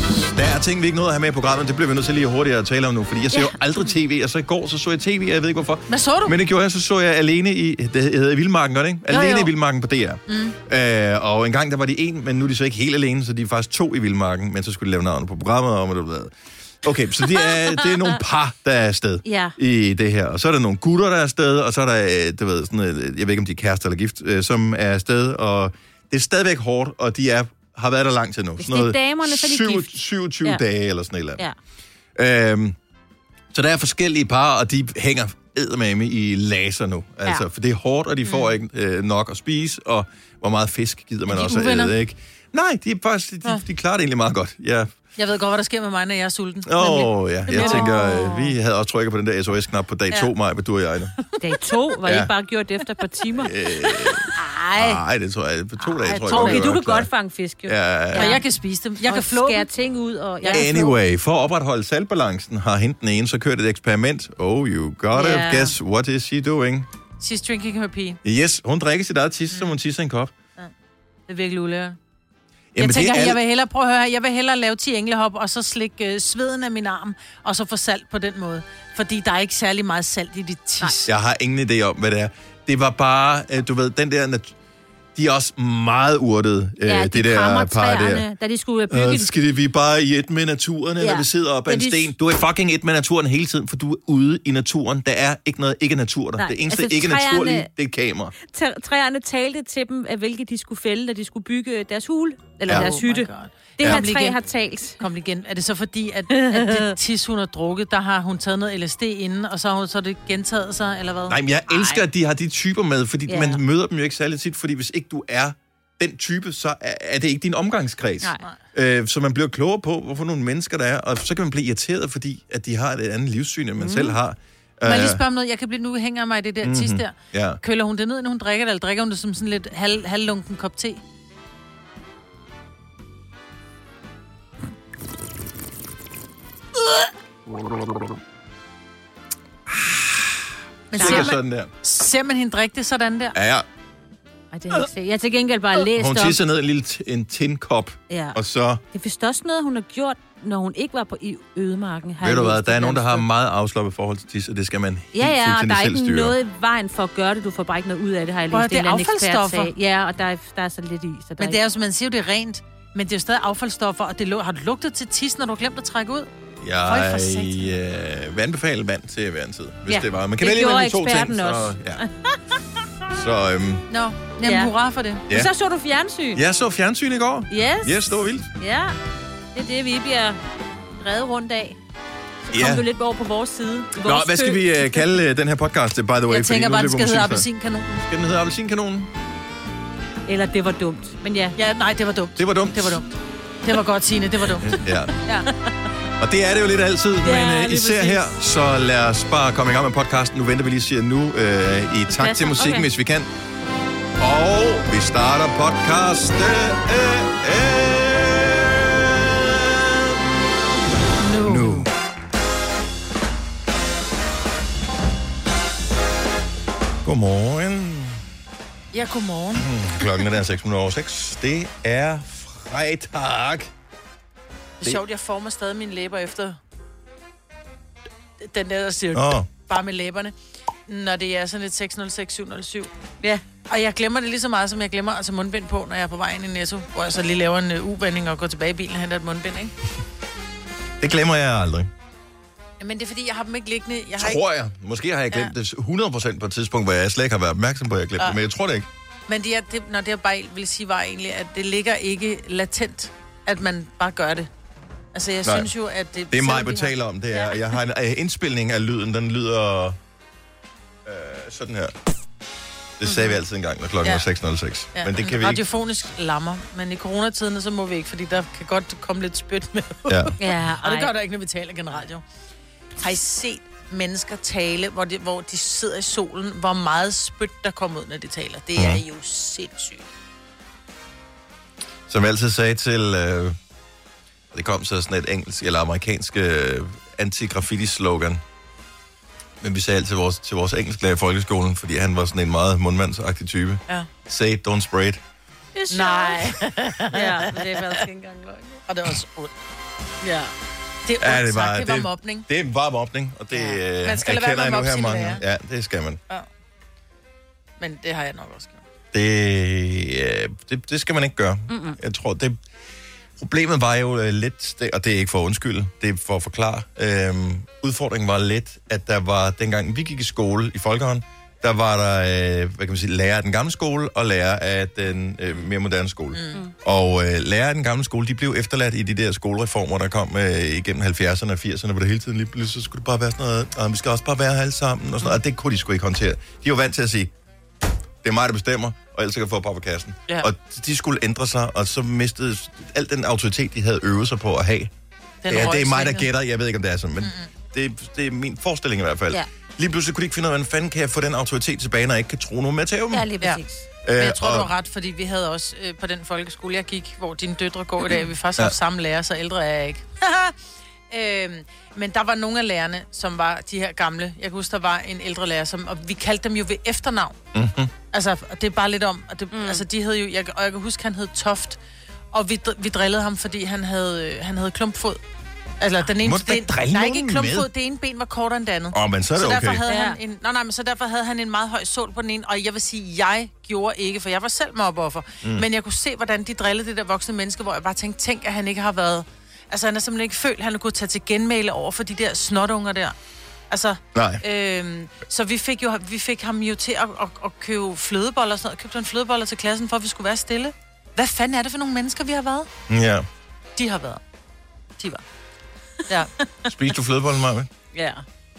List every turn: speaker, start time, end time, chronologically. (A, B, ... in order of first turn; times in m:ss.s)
0:00.3-0:31.4 A
0:05.9-0:06.4 B
0:09.1-0:09.4 C
0:10.3-0:10.6 B
0:17.4-0:17.8 C
0:19.2-0:19.6 C
0:28.6-0:30.6 C
0:32.2-0:32.8 A
0:33.5-0:44.9 A
0:38.2-0:38.5 B
0:41.3-0:41.9 B
0:45.2-0:47.9 B
0:46.7-0:51.1 A
0:47.5-0:48.6 C
0:51.4-0:54.5 C
0:52.1-0:52.3 A
0:53.4-0:57.1 A
0:54.4-0:54.7 B
0:55.9-0:58.4 C
0:56.2-0:56.7 B
0:57.7-0:58.3 A
0:58.2-0:59.7 B
0:59.0-1:00.9 C
1:00.4-1:00.9 B
1:00.5-1:06.9 A
1:05.1-1:05.8 C
1:07.2-1:08.2 B
1:08.2-1:10.3 A
1:09.5-1:09.8 B
1:11.3-1:12.0 B
1:12.7-1:13.4 A
1:12.8-1:21.0 B
1:21.1-1:24.6 A
1:25.2-1:28.2 A
1:26.8-1:29.3 C
1:28.9-1:38.3 A
1:31.0-1:32.1 C
1:36.4-1:37.7 C
1:38.4-1:45.0 C
1:42.7-1:44.4 B
1:43.8-1:44.1 A
1:45.0-1:51.4 B
1:46.3-1:46.9 C
1:51.3-2:05.2 A
1:51.7-1:52.0 C
1:53.3-1:53.6 C
2:03.8-2:04.2 C
2:04.8-2:11.0 B
2:06.6-2:07.6 A
2:17.5-2:18.2 A
2:19.7-2:21.7 A
2:20.9-2:23.4 B
2:20.9-2:21.3 C
2:23.4-2:23.7 A
2:24.5-2:26.4 C
2:26.0-2:28.8 A
2:28.1-2:28.4 C
2:28.9-2:33.3 C
2:32.2-2:36.4 A
2:35.2-2:41.6 C
2:38.5-2:39.7 B
2:41.4-2:46.3 B
2:46.6-2:52.0 A
2:46.8-2:47.7 B
2:49.9-2:52.6 C
2:53.1-2:53.8 A
2:53.9-2:55.2 B
2:54.4-2:54.7 C
2:55.3-2:56.4 C
2:56.4-2:58.5 A
2:57.5-2:59.0 C
2:59.6-3:00.4 C
3:01.0-3:01.8 C
3:02.4-3:05.0 C
3:02.5-3:02.8 A
3:04.0-3:07.4 A
3:06.3-3:08.0 B
3:08.1-3:09.1 A
3:10.3-3:11.6 C
3:11.6-3:13.1 B
3:12.4-3:13.0 A
3:13.6-3:14.7 B
3:14.6-3:15.1 A
3:16.2-3:23.3 A
3:17.2-3:18.3 C
3:22.1-3:22.9 C
3:24.2-3:30.1 A
3:31.2-3:31.9 B
3:31.4-3:31.9 A
3:37.0-3:38.2 A
3:38.9-3:39.7 B
3:39.6-3:43.7 A
3:44.8-3:46.6 B
3:48.4-3:50.4 B
3:49.1-3:49.5 A
3:50.9-3:52.9 B
3:53.7-3:59.7 B
4:01.0-4:01.9 A
4:02.8-4:04.4 B
4:04.2-4:08.9 A
4:09.3-4:14.5 B
4:15.1-4:17.0 B
4:16.3-4:20.0 A
4:21.1-4:21.9 A
4:23.0-4:25.6 A
4:23.0-4:23.4 C
4:25.0-4:32.2 B
4:30.1-4:30.3 A
4:30.4-4:31.1 C
4:33.0-4:40.0 B
4:38.8-4:39.0 A
4:42.1-4:43.6 A
4:44.5-4:48.4 A
4:49.6-4:55.2 A
4:55.8-4:56.5 C
4:55.9-4:58.0 B
4:57.1-4:58.8 C
4:58.9-4:59.5 B
5:00.2-5:00.5 B
5:01.0-5:02.5 B
5:01.2-5:06.2 A
5:03.5-5:05.4 B
5:07.8-5:08.8 B
5:09.1-5:12.6 A
5:11.7-5:12.0 C
5:13.4-5:37.3 A
5:26.3-5:26.6 B
5:38.2-5:44.9 A
5:45.4-5:46.3 B
5:45.5-5:53.2 A
5:47.2-5:47.5 B
5:53.1-5:53.9 C
5:54.0-5:54.7 A
5:54.2-6:00.6 B
6:01.1-6:07.4 B
6:07.5-6:07.9 A
6:08.1-6:11.8 B
6:09.5-6:09.8 C
6:12.3-6:15.2 B
6:15.8-6:33.2 B
6:16.2-6:17.7 A
6:18.9-6:19.8 A
6:19.9-6:20.2 C
6:33.7-6:42.7 B
6:34.1-6:34.4 A
6:42.9-6:43.3 A
6:43.8-6:44.2 B
6:45.0-6:45.2 B
6:46.7-6:47.7 A
6:47.9-6:48.2 C